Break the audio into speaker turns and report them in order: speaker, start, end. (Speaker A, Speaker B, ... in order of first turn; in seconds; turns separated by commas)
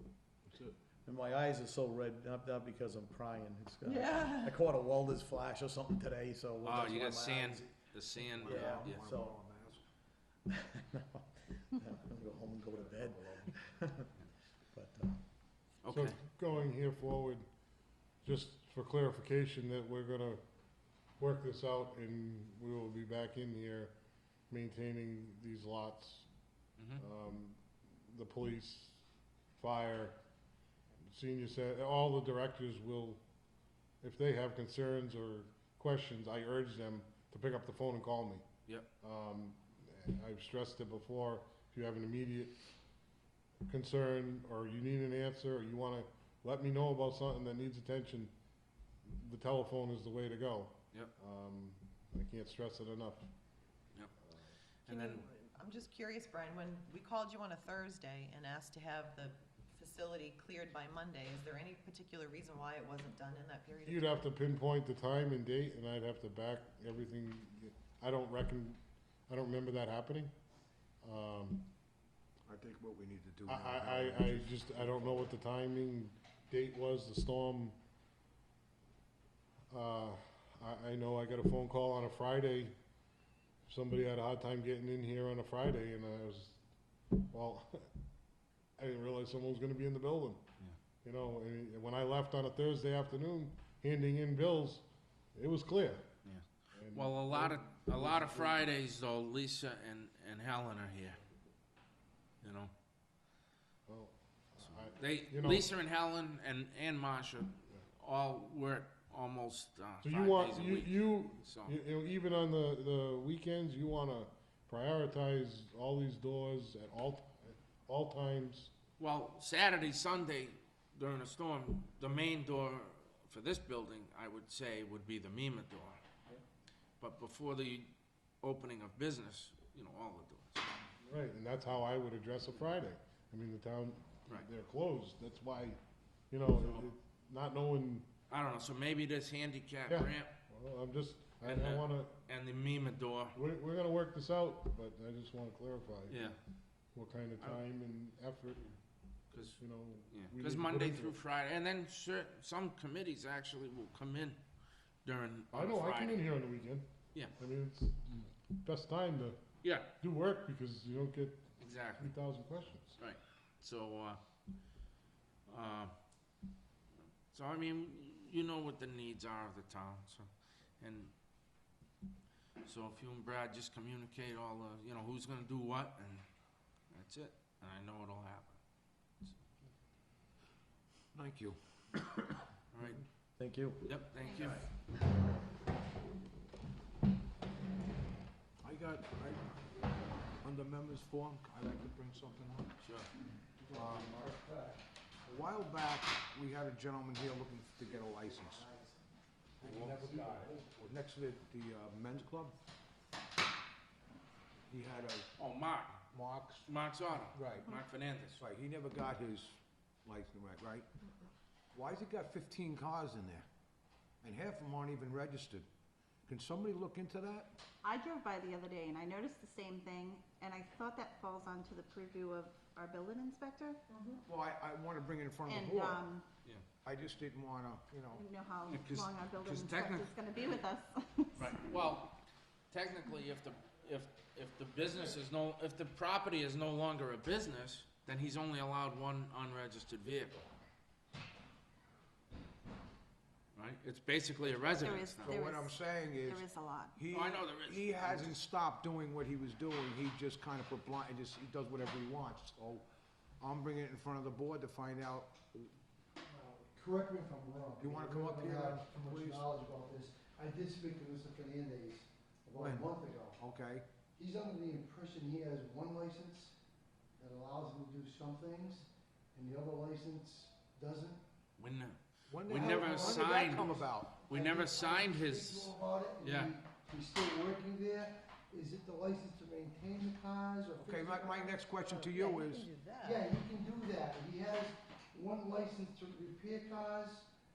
Speaker A: 1.0-7.7, Speaker B: 3.8-4.6, Speaker C: 6.6-9.1, Speaker D: 8.2-9.8, Speaker A: 8.5-9.3, Speaker A: 10.5-11.2, Speaker A: 11.8-14.0, Speaker D: 12.9-13.5, Speaker A: 14.7-15.2, Speaker C: 15.8-16.1, Speaker E: 15.9-17.4, Speaker E: 18.2-20.4, Speaker E: 21.2-23.9, Speaker E: 24.5-26.3, Speaker E: 27.0-29.0, Speaker E: 29.6-30.2, Speaker E: 31.0-33.2, Speaker E: 34.0-38.4, Speaker E: 39.0-42.5, Speaker E: 43.7-48.3, Speaker E: 49.0-53.2, Speaker C: 54.9-55.2, Speaker B: 54.9-64.2, Speaker E: 63.9-70.3, Speaker E: 71.0-71.7, Speaker D: 72.5-75.3, Speaker E: 73.5-77.8, Speaker E: 79.7-82.7, Speaker E: 83.7-86.6, Speaker E: 87.3-87.9, Speaker E: 88.8-90.4, Speaker E: 91.0-94.8, Speaker E: 95.3-96.1, Speaker C: 96.2-101.2, Speaker E: 96.7-98.6, Speaker C: 102.4-102.7, Speaker E: 103.9-105.7, Speaker C: 104.7-111.7, Speaker E: 110.0-118.7, Speaker C: 119.0-126.0, Speaker C: 127.0-130.6, Speaker E: 131.0-135.8, Speaker E: 136.3-138.1, Speaker C: 136.5-136.9, Speaker C: 138.3-140.3, Speaker E: 139.9-142.2, Speaker C: 141.4-143.4, Speaker E: 143.3-146.3, Speaker C: 146.1-146.4, Speaker E: 146.9-148.7, Speaker C: 149.3-149.6, Speaker E: 149.6-151.2, Speaker C: 150.1-154.4, Speaker C: 155.0-156.3, Speaker E: 155.5-159.4, Speaker C: 159.6-159.9, Speaker E: 160.0-163.0, Speaker C: 161.6-162.1, Speaker C: 163.0-164.2, Speaker C: 165.5-165.9, Speaker C: 167.3-170.3, Speaker C: 170.8-171.1, Speaker C: 172.6-176.2, Speaker C: 176.9-178.6, Speaker D: 181.1-181.6, Speaker C: 182.7-183.0, Speaker A: 183.4-183.8, Speaker C: 183.8-184.7, Speaker D: 188.6-192.7, Speaker C: 192.8-193.1, Speaker F: 193.6-194.8, Speaker D: 193.7-194.2, Speaker D: 195.3-198.7, Speaker F: 197.9-199.0, Speaker F: 199.6-200.6, Speaker D: 199.6-202.5, Speaker D: 204.7-205.3, Speaker C: 205.4-206.0, Speaker D: 206.1-206.7, Speaker C: 206.6-208.4, Speaker D: 207.3-207.7, Speaker D: 208.3-210.9, Speaker D: 211.7-213.4, Speaker D: 214.2-215.7, Speaker D: 216.3-217.6, Speaker G: 217.8-224.1, Speaker D: 224.2-226.1, Speaker G: 225.4-226.2, Speaker D: 226.8-228.3, Speaker G: 228.1-231.6, Speaker C: 228.7-230.1, Speaker C: 231.3-232.2, Speaker C: 232.7-240.5, Speaker C: 243.5-245.4, Speaker D: 244.6-252.8, Speaker G: 244.8-247.0, Speaker C: 247.1-248.4, Speaker D: 253.4-255.7, Speaker F: 256.3-263.4, Speaker D: 257.8-259.5, Speaker D: 262.5-263.9, Speaker F: 264.1-266.6, Speaker F: 267.2-271.2, Speaker C: 271.6-276.5, Speaker D: 272.3-274.3, Speaker F: 272.5-273.3, Speaker F: 274.3-281.6, Speaker D: 280.8-282.7, Speaker B: 281.8-283.3, Speaker F: 283.0-287.3